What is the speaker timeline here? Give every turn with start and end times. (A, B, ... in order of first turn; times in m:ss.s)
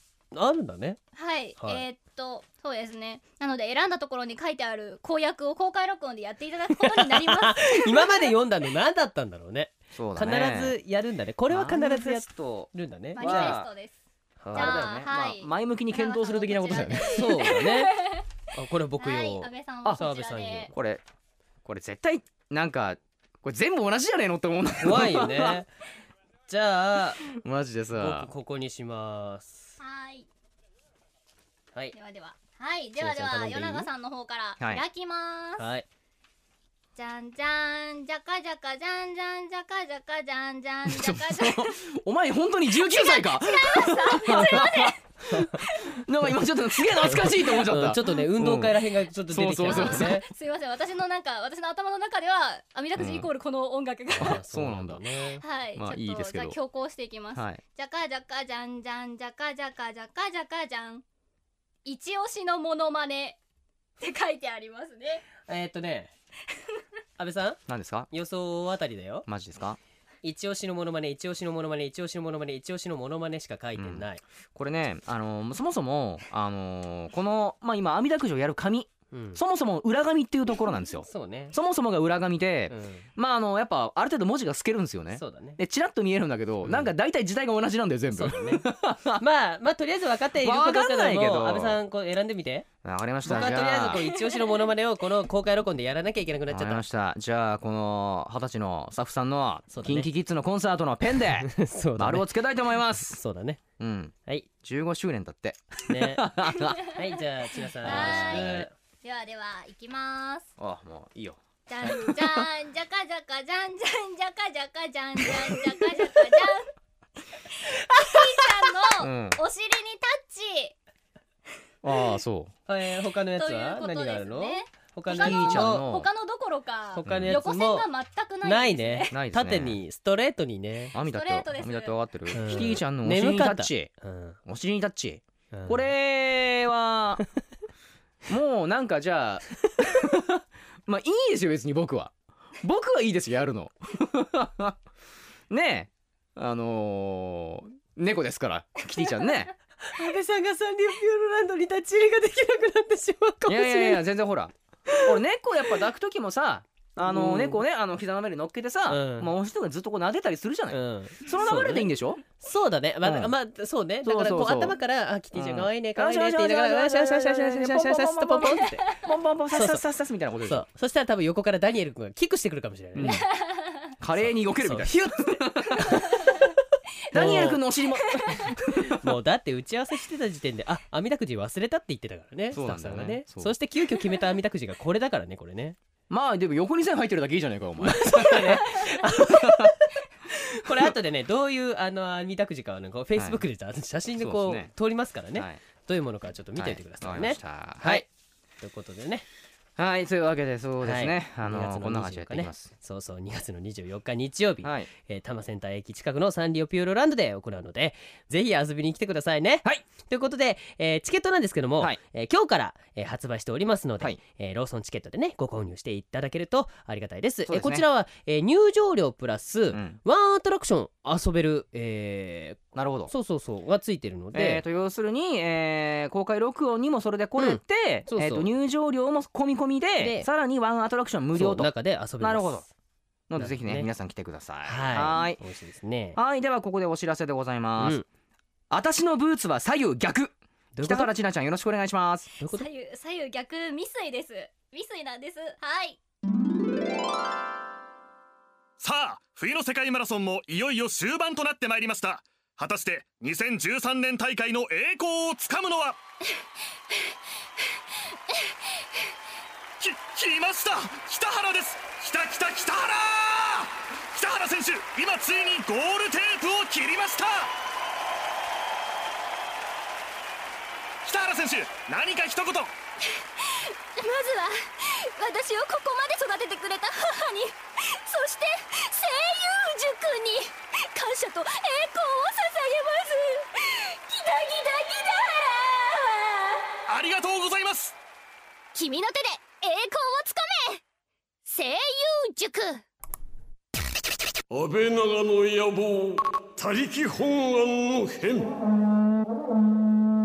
0:00.3-0:01.0 A
0:01.1-0:08.3 B
0:01.6-0:01.8 A
0:06.8-0:13.6 A
0:09.9-0:10.7 C
0:11.5-0:13.7 C
0:13.1-0:14.0 B
0:14.4-0:15.0 A
0:14.5-0:17.3 C
0:14.5-0:18.2 B
0:17.1-0:18.0 A
0:18.5-0:20.7 A
0:19.0-0:20.7 B
0:20.7-0:21.0 C
0:21.6-0:25.6 C
0:24.8-0:25.7 A
0:26.5-0:27.2 A
0:27.3-0:28.3 C
0:28.0-0:29.8 A
0:29.8-0:30.3 B
0:31.9-0:35.6 B
0:33.0-0:33.9 A
0:35.6-0:35.8 A
0:37.0-0:41.8 B
0:40.9-0:50.2 C
0:42.7-0:45.0 B
0:45.3-0:45.6 A
0:47.0-0:50.2 A
0:49.7-0:54.4 B
0:53.0-0:53.3 C
0:54.1-0:55.4 A
0:54.2-0:55.0 C
0:55.4-1:01.0 B
0:55.8-0:56.6 C
0:57.4-0:57.6 C
1:01.8-1:03.4 B
1:04.0-1:05.2 B
1:05.4-1:06.1 A
1:07.2-1:07.6 A
1:07.7-1:08.1 C
1:08.1-1:09.2 A
1:09.3-1:09.8 C
1:10.2-1:14.2 A
1:13.8-1:14.0 C
1:14.5-1:29.2 C
1:19.1-1:19.4 A
1:21.1-1:21.5 A
1:22.7-1:23.1 A
1:25.1-1:25.6 A
1:28.1-1:28.7 A
1:29.2-1:32.7 A
1:30.4-1:31.8 C
1:32.8-1:34.0 C
1:33.2-1:36.8 A
1:33.2-1:34.6 B
1:36.5-1:43.2 C
1:39.7-1:40.1 A
1:41.4-1:42.3 A
1:42.9-1:43.6 A
1:43.8-1:46.8 C
1:45.9-1:48.7 A
1:47.8-1:50.5 B
1:47.8-1:48.7 C
1:50.6-1:51.4 C
1:51.7-1:56.7 B
1:57.6-2:00.7 B
1:59.0-1:59.4 C
2:01.8-2:02.5 C
2:02.7-2:05.8 A
2:03.3-2:09.1 B
2:05.1-2:06.1 C
2:06.9-2:07.9 A
2:07.0-2:07.4 C
2:08.4-2:10.9 A
2:09.1-2:09.8 C
2:10.9-2:13.9 C
2:11.0-2:12.0 B
2:12.3-2:14.4 A
2:14.4-2:17.2 C
2:15.5-2:15.9 A
2:18.3-2:24.8 C
2:25.5-2:29.5 C
2:29.8-2:34.0 A
2:33.4-2:42.2 C
2:34.9-2:35.1 A
2:37.0-2:37.6 A
2:38.9-2:39.3 A
2:40.7-2:48.9 A
2:43.0-2:43.3 C
2:44.0-2:44.8 C
2:45.3-2:50.6 C
2:49.5-2:49.8 A
2:50.5-2:53.2 A
2:52.9-2:53.2 C
2:53.0-2:53.9 B
2:54.0-2:56.0 C
2:54.2-2:56.4 A
2:57.1-2:59.1 C
2:57.1-2:57.6 A
2:58.4-3:05.8 A
3:02.5-3:03.5 C
3:06.1-3:09.7 C
3:07.8-3:18.0 A
3:13.2-3:13.4 C
3:14.2-3:14.7 C
3:15.3-3:15.6 C
3:16.6-3:18.0 C
3:18.6-3:19.2 A
3:19.8-3:22.7 C
3:20.8-3:44.6 A
3:24.6-3:24.9 C
3:37.4-3:37.8 C
3:39.7-3:40.0 C
3:42.7-3:43.1 C
3:44.3-3:52.6 C
3:47.4-3:48.5 A
3:50.0-3:50.3 A
3:51.3-3:52.6 A
3:53.3-3:55.4 C
3:53.4-3:53.9 A
3:54.6-3:56.2 A
3:56.2-3:58.0 C
3:57.8-3:58.0 A
3:58.7-4:02.3 C
4:00.7-4:01.1 A
4:02.4-4:02.7 A
4:02.5-4:06.0 B
4:08.8-4:09.6 D
4:08.8-4:16.0 E
4:10.5-4:11.9 D
4:12.6-4:15.9 D
4:19.8-4:27.5 E
4:19.8-4:27.4 D
4:31.1-4:32.7 E
4:31.8-4:32.6 D
4:33.0-4:46.7 B
4:46.9-4:47.9 E
4:46.9-4:47.9 D
4:48.7-4:50.8 B
4:51.4-4:52.8 B
4:54.5-4:58.5 D